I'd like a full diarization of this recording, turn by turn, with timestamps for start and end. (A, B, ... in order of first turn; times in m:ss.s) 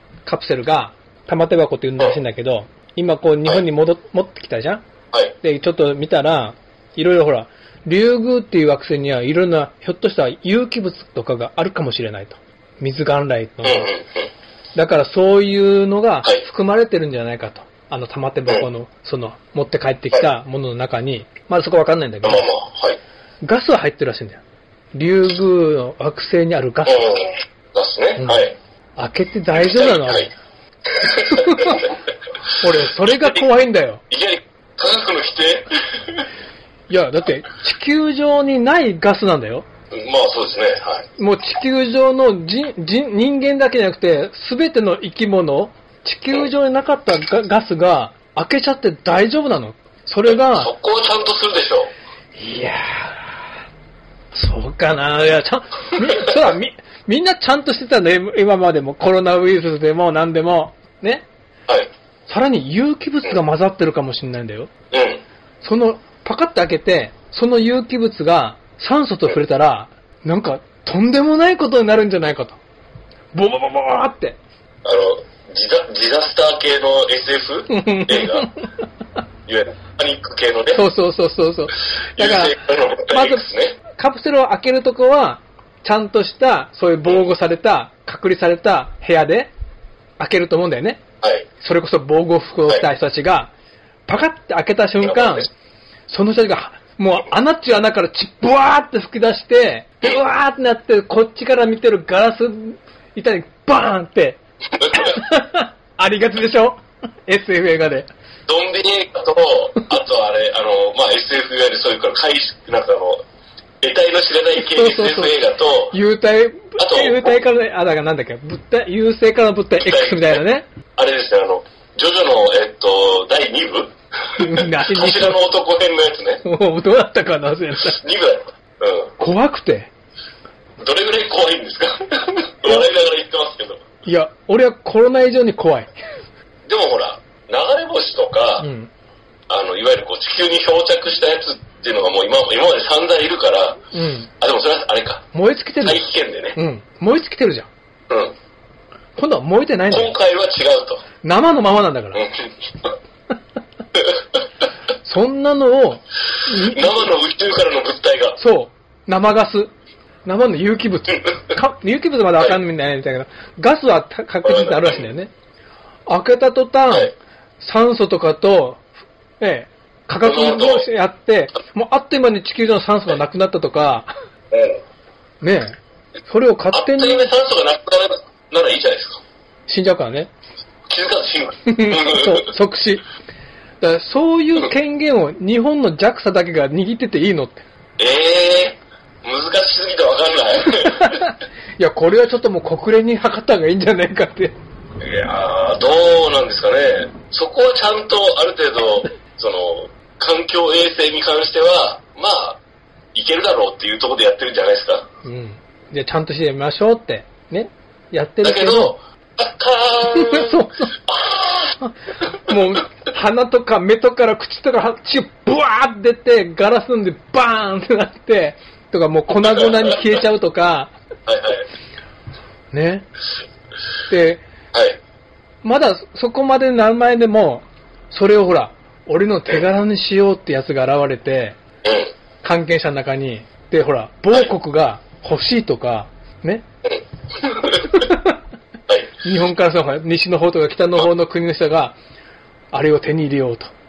0:00.2-0:04.8 A
0:05.4-0:13.9 A
0:13.6-0:14.3 B
0:14.8-0:22.4 A
0:22.2-0:23.0 B
0:23.4-0:24.4 A
0:24.9-0:27.0 A
0:26.8-0:28.6 B
0:28.2-0:30.3 A
0:29.5-0:30.3 B
0:31.0-0:31.9 B
0:31.3-0:31.8 A
0:32.6-0:34.0 A
0:33.0-0:33.4 B
0:34.1-0:36.2 B
0:36.9-0:39.7 A
0:39.9-0:41.1 B
0:41.2-0:50.7 A
0:50.3-0:51.9 B
0:52.4-0:53.4 A
0:54.3-1:01.3 A
1:02.3-1:04.7 A
1:04.9-1:05.2 B
1:05.6-1:12.6 A
1:13.3-1:14.4 A
1:14.8-1:18.5 B
1:17.7-1:18.7 A
1:19.5-1:20.8 B
1:20.7-1:29.5 A
1:22.2-1:23.8 B
1:30.2-1:31.0 A
1:31.6-1:33.5 A
1:34.1-1:35.5 A
1:35.0-1:35.4 B
1:36.1-1:44.4 A
1:44.8-1:45.2 B
1:44.9-1:48.1 A
1:48.5-1:53.2 B
1:53.8-1:56.0 B
1:54.6-1:55.3 A
1:55.9-2:00.7 A
1:56.8-1:57.4 B
1:59.8-2:00.4 B
2:01.0-2:06.4 B
2:04.4-2:05.4 A
2:06.4-2:08.0 A
2:07.8-2:09.1 B
2:09.2-2:09.9 A
2:10.8-2:13.8 B
2:14.0-2:15.9 A
2:16.7-2:18.7 B
2:18.6-2:18.9 A
2:19.5-2:23.8 B
2:23.9-2:24.3 A
2:24.4-2:25.2 B
2:25.3-2:26.0 A
2:25.8-2:26.6 B
2:26.5-2:27.7 A
2:28.1-2:28.3 B
2:29.2-2:30.1 A
2:29.9-2:31.0 B
2:31.2-2:32.3 A
2:32.1-2:32.9 B
2:35.0-2:37.1 A
2:36.5-2:38.4 B
2:38.4-2:39.7 A
2:40.2-2:45.3 A
2:44.4-2:45.1 B
2:46.1-2:48.8 A
2:49.4-2:54.1 A
2:50.2-2:50.8 B
2:54.5-2:54.8 B
2:55.4-2:57.3 A
2:56.7-2:59.2 B
2:59.7-3:00.3 A
3:00.9-3:02.5 B
3:01.7-3:03.0 A
3:03.8-3:07.6 A
3:08.0-3:11.2 B
3:11.0-3:14.6 A
3:15.0-3:22.6 B
3:23.1-3:25.1 B
3:25.2-3:29.0 A
3:28.4-3:31.8 B
3:30.1-3:30.9 A
3:31.8-3:40.9 A
3:41.3-3:41.6 B
3:42.7-3:43.0 A
3:44.1-3:44.4 A
3:44.7-3:45.0 B
3:45.6-3:51.6 A
3:51.8-3:52.1 B
3:52.4-3:56.6 A
3:56.8-3:57.9 B
3:57.9-3:58.2 A
3:59.2-4:02.0 A
4:02.7-4:03.7 A